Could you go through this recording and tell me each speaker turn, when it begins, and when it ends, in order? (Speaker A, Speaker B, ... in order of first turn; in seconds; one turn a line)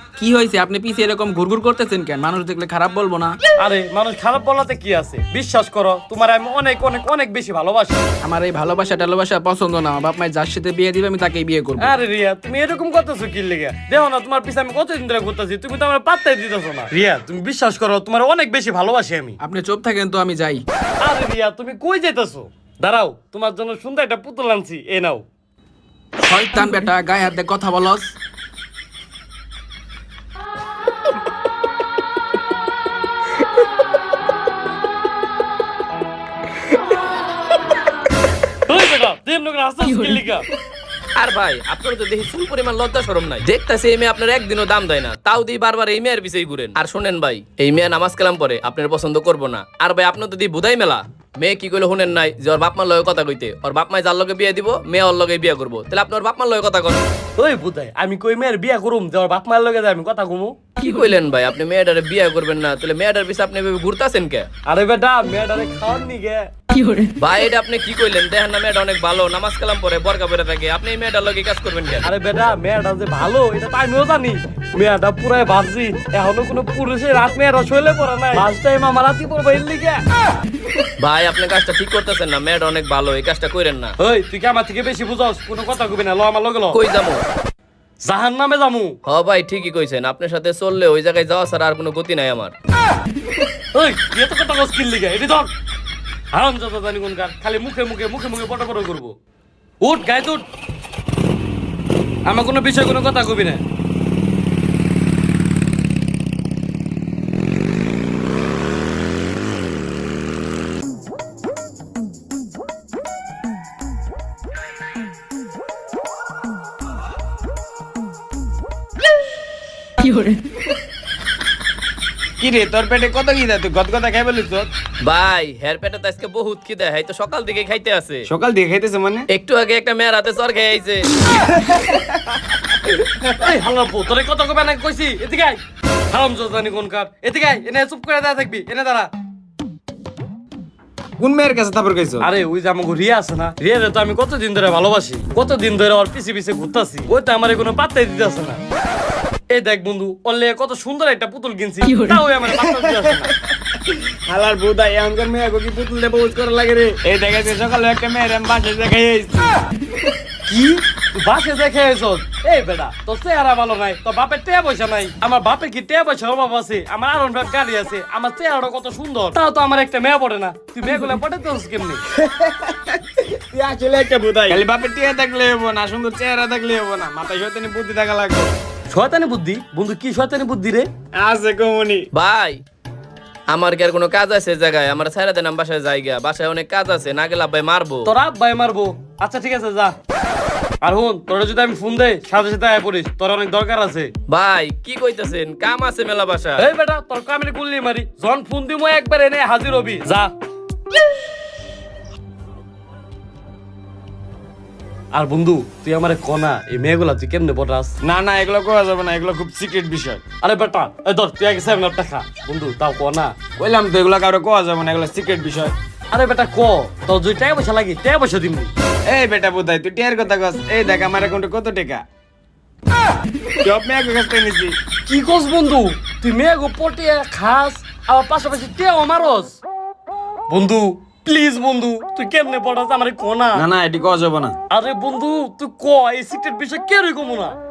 Speaker A: 0.2-3.4
Speaker B: 3.6-8.0
Speaker A: 8.2-11.9
Speaker B: 11.8-19.4
Speaker A: 19.4-20.6
Speaker B: 21.0-25.2
Speaker A: 26.2-28.1
Speaker B: 38.6-40.5
Speaker C: 41.2-57.0
Speaker B: 57.4-60.6
Speaker C: 60.8-64.5
Speaker B: 64.7-66.5
Speaker C: 67.2-72.1
Speaker B: 72.0-80.0
Speaker C: 81.0-83.9
Speaker B: 84.0-86.8
Speaker C: 86.7-87.2
Speaker B: 88.0-89.0
Speaker C: 89.1-92.5
Speaker B: 93.7-95.5
Speaker B: 96.3-99.2
Speaker B: 99.8-100.4
Speaker B: 102.3-103.6
Speaker D: 122.4-124.7
Speaker C: 125.0-128.3
Speaker D: 128.3-129.3
Speaker C: 129.3-131.1
Speaker D: 131.3-133.4
Speaker B: 133.4-135.6
Speaker B: 136.1-139.1
Speaker D: 141.2-142.3
Speaker B: 142.2-148.6
Speaker B: 149.5-153.3
Speaker D: 152.6-153.1
Speaker D: 153.8-159.5
Speaker B: 160.4-172.0
Speaker D: 172.1-178.5
Speaker B: 178.9-180.9
Speaker D: 181.1-182.1
Speaker C: 182.1-182.6
Speaker C: 183.5-188.1
Speaker B: 188.0-189.9
Speaker B: 190.8-194.1
Speaker C: 194.3-196.7
Speaker B: 196.6-200.3
Speaker B: 205.1-207.9
Speaker D: 208.0-210.2
Speaker B: 210.4-213.3
Speaker D: 213.6-215.7
Speaker B: 216.1-218.7
Speaker D: 219.1-222.0
Speaker D: 223.6-224.8
Speaker B: 225.1-229.6
Speaker B: 230.5-233.6
Speaker D: 233.6-234.6
Speaker B: 234.7-237.6